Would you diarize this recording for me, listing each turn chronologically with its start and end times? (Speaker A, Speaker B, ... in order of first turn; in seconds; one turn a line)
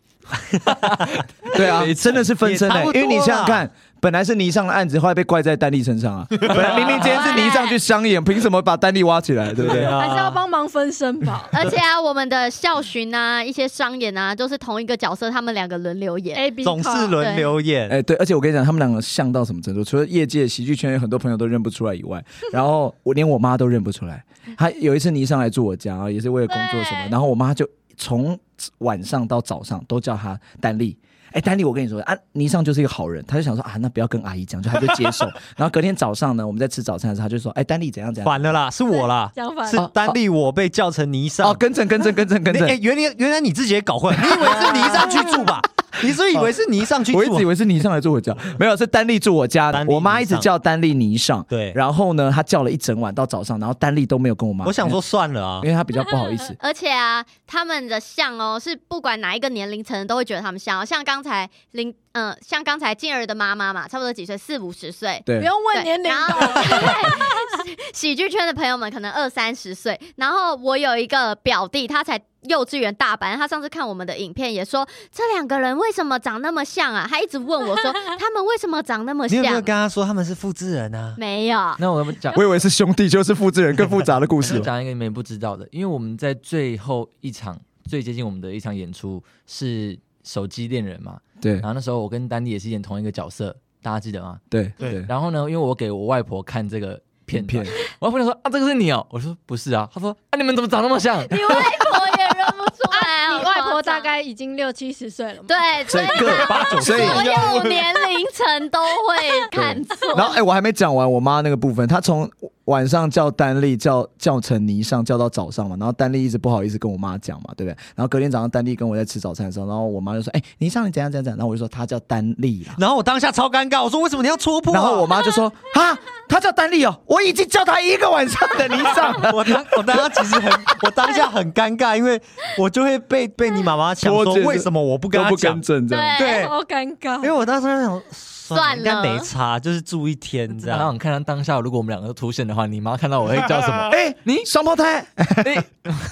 Speaker A: 0.5-1.1
Speaker B: 0.7-2.2
Speaker C: 1.5-9.9
Speaker A: 2.3-3.7
Speaker D: 7.0-7.8
Speaker A: 9.6-10.4
Speaker E: 9.9-11.5
Speaker D: 11.5-16.5
Speaker E: 16.3-17.2
Speaker A: 16.6-18.0
Speaker D: 17.2-17.5
Speaker C: 17.9-38.6
Speaker E: 26.5-27.1
Speaker A: 38.2-41.6
Speaker E: 38.9-39.9
Speaker C: 39.7-40.2
Speaker C: 41.4-42.8
Speaker A: 42.5-47.5
Speaker C: 44.4-45.5
Speaker C: 46.0-46.5
Speaker C: 47.1-55.0
Speaker A: 49.7-50.5
Speaker A: 51.5-51.8
Speaker A: 54.6-55.7
Speaker C: 55.6-56.6
Speaker D: 56.6-79.7
Speaker C: 65.2-65.5
Speaker E: 65.4-67.6
Speaker A: 79.3-81.2
Speaker D: 81.2-81.8
Speaker B: 81.8-82.4
Speaker C: 82.3-84.7
Speaker B: 84.4-102.0
Speaker C: 94.5-95.1
Speaker C: 97.3-97.7
Speaker D: 101.3-104.1
Speaker E: 102.9-107.6
Speaker D: 105.5-110.4
Speaker C: 105.8-107.3
Speaker A: 106.3-107.3
Speaker C: 109.5-122.8
Speaker A: 122.8-125.1
Speaker C: 124.7-130.3
Speaker A: 128.8-135.6
Speaker C: 134.0-136.2
Speaker D: 135.9-136.5
Speaker A: 136.2-136.5
Speaker E: 136.2-137.3
Speaker A: 137.2-140.9
Speaker D: 138.5-139.3
Speaker B: 140.5-144.5
Speaker C: 143.9-145.6
Speaker B: 145.4-146.0